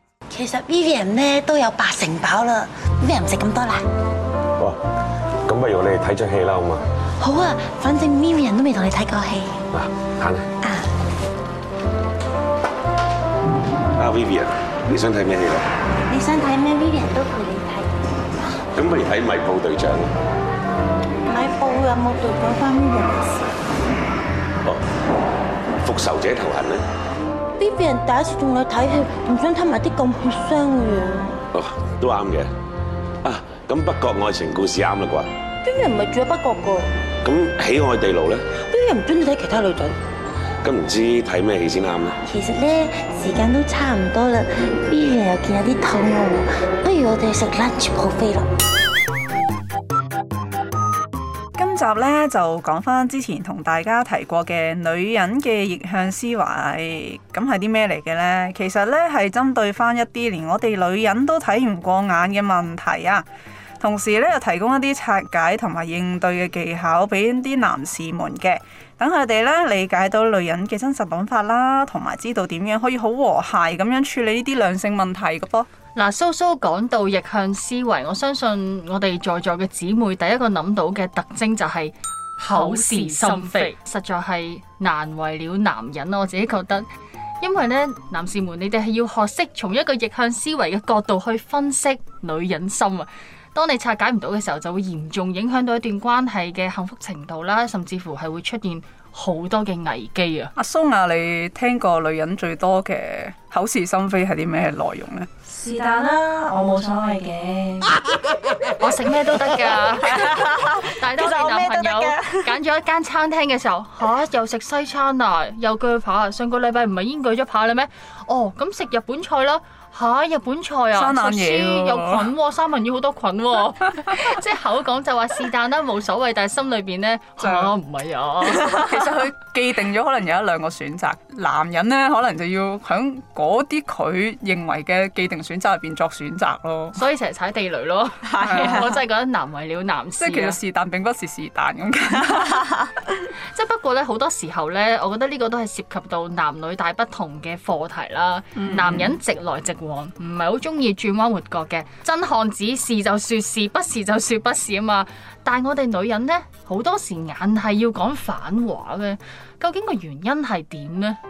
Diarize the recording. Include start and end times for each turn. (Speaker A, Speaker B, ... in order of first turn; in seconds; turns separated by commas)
Speaker A: 0.3-3.9, Speaker B: 5.5-6.8, Speaker A: 7.2-9.6, Speaker B: 9.7-10.5, Speaker B: 14.0-15.7, Speaker A: 16.1-17.9, Speaker B: 18.8-20.1, Speaker A: 21.2-23.5, Speaker B: 25.8-26.8, Speaker A: 27.6-31.4, Speaker B: 31.5-32.5, Speaker B: 33.2-35.3, Speaker A: 35.6-36.9, Speaker B: 37.2-38.4, Speaker A: 38.6-40.0, Speaker B: 40.6-42.2, Speaker A: 42.2-48.5, Speaker C: 51.6-63.2, Speaker C: 63.8-75.7, Speaker D: 75.9-86.9, Speaker E: 82.5-83.7, Speaker D: 87.4-100.5, Speaker C: 100.6-105.3, Speaker E: 105.5-108.0, Speaker D: 108.8-129.0, Speaker E: 109.6-112.5, Speaker C: 120.9-122.3, Speaker C: 127.4-127.7, Speaker C: 128.5-137.0, Speaker D: 136.9-140.6, Speaker E: 138.2-138.9, Speaker C: 138.4-138.8, Speaker C: 140.2-142.8, Speaker D: 143.5-161.2, Speaker E: 148.6-148.9, Speaker C: 148.6-149.1